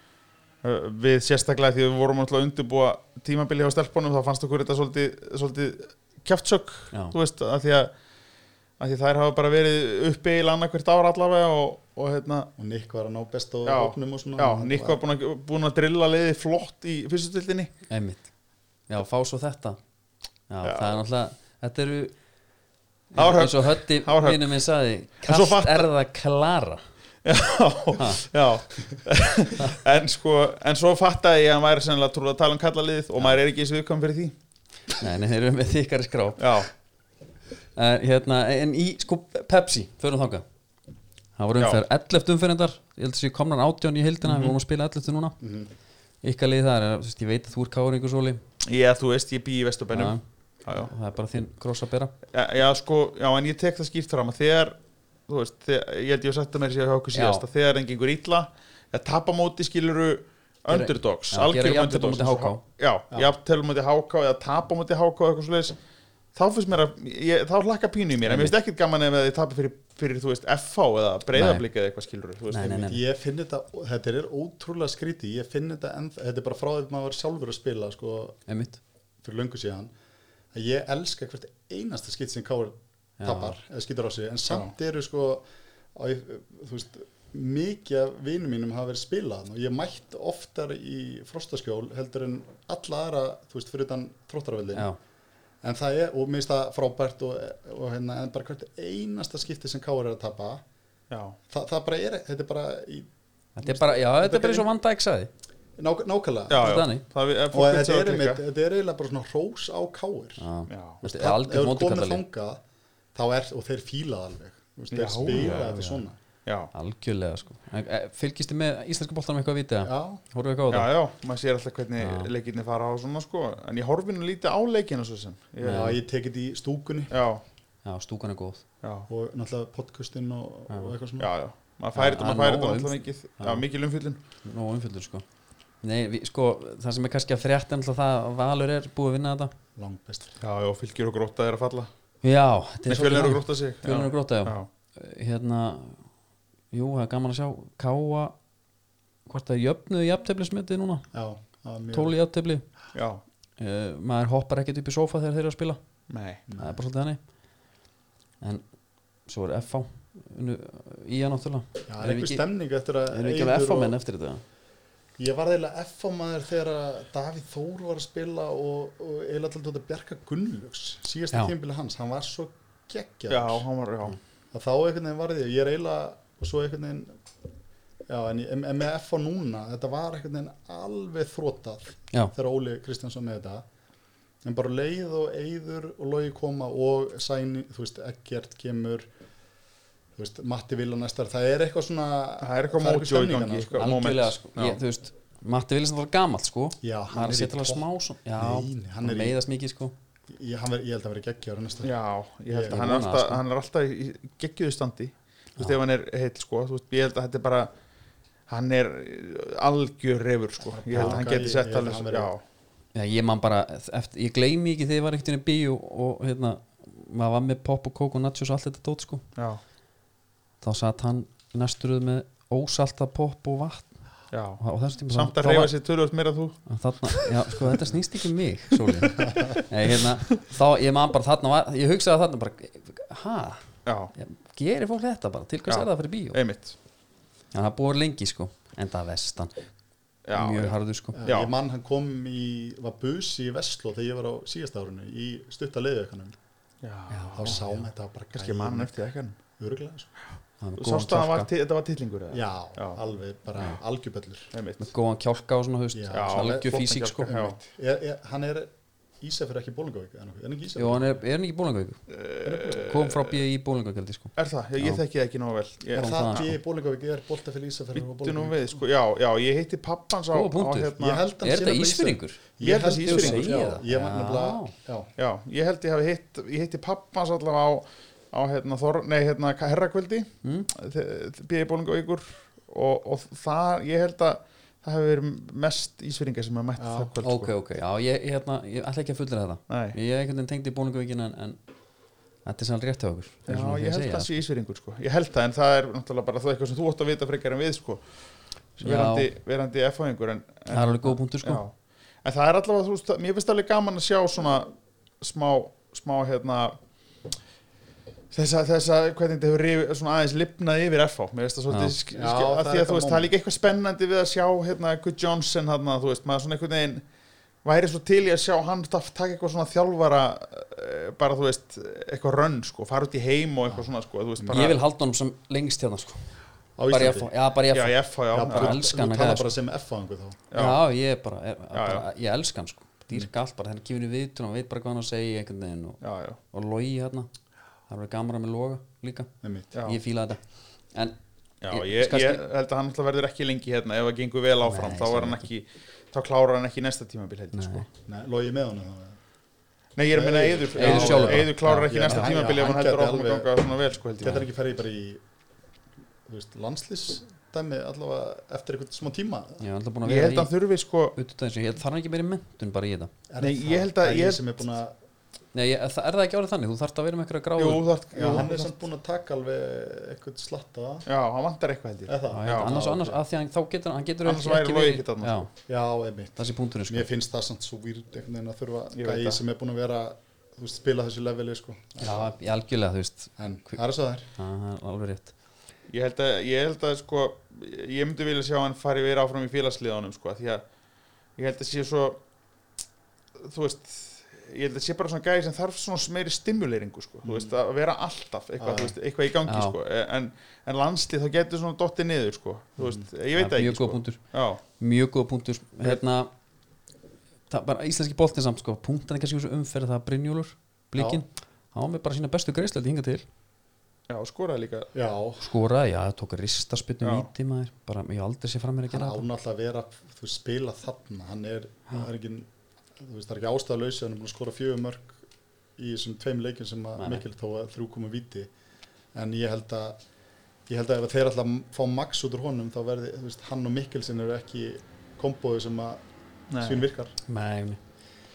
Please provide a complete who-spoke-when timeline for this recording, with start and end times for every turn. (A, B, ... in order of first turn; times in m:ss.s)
0:00.6-0:07.9 A
0:08.8-0:12.5 A
0:12.6-0:15.0 B
0:13.6-0:17.7 A
0:17.9-0:18.3 C
0:18.9-0:19.8 C
0:20.5-0:22.1 C
0:20.6-0:21.0 A
0:23.1-0:26.8 C
0:23.2-0:24.6 A
0:25.2-0:25.9 A
0:27.2-0:34.3 A
0:28.0-0:28.2 C
0:35.0-0:36.6 C
0:36.4-0:36.7 A
0:37.8-0:40.4 C
0:41.4-0:45.4 C
0:44.2-0:44.6 A
0:45.4-0:45.7 B
0:46.2-0:48.4 C
0:48.6-0:50.9 A
0:49.9-0:52.1 C
0:52.3-0:54.8 A
0:55.3-1:05.8 A
0:57.1-0:57.4 C
1:00.7-1:02.6 C
1:06.3-1:12.8 A
1:08.2-1:08.5 C
1:11.3-1:11.6 C
1:12.5-1:13.0 C
1:12.6-1:18.4 B
1:18.5-1:18.8 C
1:19.2-1:19.9 B
1:20.5-1:34.9 B
1:23.2-1:23.6 C
1:35.6-1:40.6 B
1:41.1-1:41.4 A
1:41.5-1:43.1 B
1:43.6-1:45.3 C
1:43.6-1:44.7 B
1:45.8-1:46.7 B
1:46.5-1:48.4 A
1:46.5-1:47.0 C
1:47.5-1:50.4 B
1:50.4-1:52.2 C
1:50.7-1:51.0 A
1:51.0-1:52.6 B
1:53.1-1:56.2 B
1:54.9-1:55.7 A
1:55.3-1:56.0 C
1:56.4-1:56.7 A
1:56.7-2:00.9 C
1:59.8-2:00.2 B
2:00.7-2:06.0 A
2:02.0-2:02.3 C
2:05.6-2:06.0 C
2:05.6-2:07.1 B
2:07.1-2:07.4 A
2:07.8-2:08.6 C
2:08.8-2:09.1 A
2:09.1-2:11.3 B
2:11.2-2:14.2 A
2:11.9-2:13.6 C
2:14.4-2:15.2 C
2:15.8-2:19.5 C
2:19.8-2:20.4 B
2:20.4-2:21.9 A
2:22.2-2:26.0 C
2:22.9-2:24.7 A
2:26.7-2:28.3 C
2:29.2-2:31.1 C
2:31.1-2:32.1 B
2:31.9-2:32.6 C
2:32.9-2:33.2 A
2:33.6-2:35.8 C
2:36.1-2:36.4 A
2:36.5-2:36.8 B
2:36.6-2:37.2 C
2:39.2-2:42.4 C
2:41.9-2:43.9 B
2:43.1-2:44.4 C
2:45.2-2:53.6 B
2:53.3-2:54.2 A
2:54.5-2:57.2 B
2:58.1-3:03.6 B
3:04.4-3:09.1 B
3:10.1-3:13.9 B
3:12.4-3:14.8 A
3:13.8-3:19.9 C
3:16.8-3:19.4 B
3:20.3-3:21.9 B
3:21.8-3:27.7 A
3:22.5-3:23.0 B
3:22.7-3:23.4 C
3:28.5-3:32.4 A
3:30.7-3:32.3 B
3:30.9-3:31.2 C
3:32.9-3:39.2 C
3:40.6-3:43.9 C
3:44.3-3:47.8 A
3:44.6-3:45.7 C
3:46.6-3:53.6 C
3:48.9-3:49.6 A
3:53.8-3:54.1 A
3:54.1-3:56.4 C
3:55.7-3:56.7 A
3:57.5-3:59.5 C
4:00.2-4:01.5 A
4:00.3-4:01.2 C
4:01.1-4:06.4 B
4:06.8-4:07.6 A
4:07.1-4:07.8 C
4:07.4-4:10.1 B
4:08.3-4:09.4 A
4:10.6-4:11.5 C
4:10.8-4:13.0 A
4:12.3-4:14.5 B
4:14.5-4:14.9 A
4:14.8-4:17.3 C
4:15.9-4:21.2 B
4:16.1-4:17.6 A
4:20.8-4:22.0 C
4:22.1-4:23.4 A
4:22.4-4:22.8 B
4:22.6-4:25.0 C
4:24.4-4:26.5 A
4:25.9-4:26.6 C
4:25.9-4:28.8 B
4:27.9-4:31.2 A
4:30.3-4:32.4 C
4:31.0-4:35.1 B
4:32.6-4:33.6 A
4:33.0-4:34.7 C
4:35.2-4:47.5 A
4:40.4-4:40.7 C
4:46.8-4:47.1 B
4:47.2-4:51.6 C
4:49.7-4:50.0 A
4:52.4-4:54.3 C
4:53.5-4:58.1 A
4:58.8-5:06.8 A
4:58.8-4:59.3 C
5:00.7-5:01.6 C
5:08.3-5:17.0 A
5:11.7-5:11.9 C
5:12.1-5:13.3 B
5:17.6-5:24.8 A
5:23.7-5:24.7 B
5:24.5-5:26.4 C
5:26.8-5:27.3 B
5:26.9-5:29.6 C
5:27.7-5:28.8 A
5:28.3-5:30.4 B
5:30.5-5:30.8 A
5:30.5-5:36.0 C
5:31.7-5:32.0 A
5:36.0-5:36.4 A
5:36.5-5:37.3 C
5:37.9-5:40.4 C
5:39.4-5:39.7 B
5:39.7-5:40.0 A
5:41.6-5:47.8 A
5:41.7-5:42.4 C
5:44.6-5:45.5 C
5:47.5-5:47.8 C
5:48.0-5:49.2 B
5:50.0-5:54.5 A
5:50.1-5:53.5 B
5:50.8-5:52.4 C
5:54.2-5:55.2 B
5:56.3-5:59.6 B
5:59.6-6:00.5 C
6:00.0-6:01.2 A
6:01.1-6:03.1 C
6:03.3-6:04.9 B
6:03.4-6:04.6 A
6:05.5-6:08.6 C
6:07.6-6:08.6 A
6:08.1-6:11.0 B
6:11.1-6:12.8 A
6:12.1-6:13.2 B
6:12.3-6:15.5 C
6:14.2-6:15.5 A
6:15.7-6:22.3 B
6:16.4-6:17.1 C
6:19.0-6:19.4 A
6:22.0-6:23.8 C
6:23.4-6:24.3 B
6:24.4-6:25.3 C
6:25.9-6:30.6 A
6:31.4-6:32.2 A
6:33.4-6:44.6 A
6:37.2-6:37.5 B
6:38.6-6:38.9 B
6:39.5-6:39.8 C
6:42.8-6:43.0 B
6:43.3-6:44.2 C
6:44.8-6:46.3 C
6:47.5-6:53.2 C
6:51.0-6:51.2 B
6:54.1-6:54.9 A
6:54.9-6:55.4 B
6:55.4-6:59.2 C
6:57.0-6:57.3 A
6:58.9-7:05.2 B
7:05.8-7:08.5 B
7:07.0-7:07.2 C
7:09.1-7:10.0 B
7:10.7-7:16.0 B
7:16.5-7:16.8 A
7:16.6-7:17.1 B
7:17.3-7:17.8 C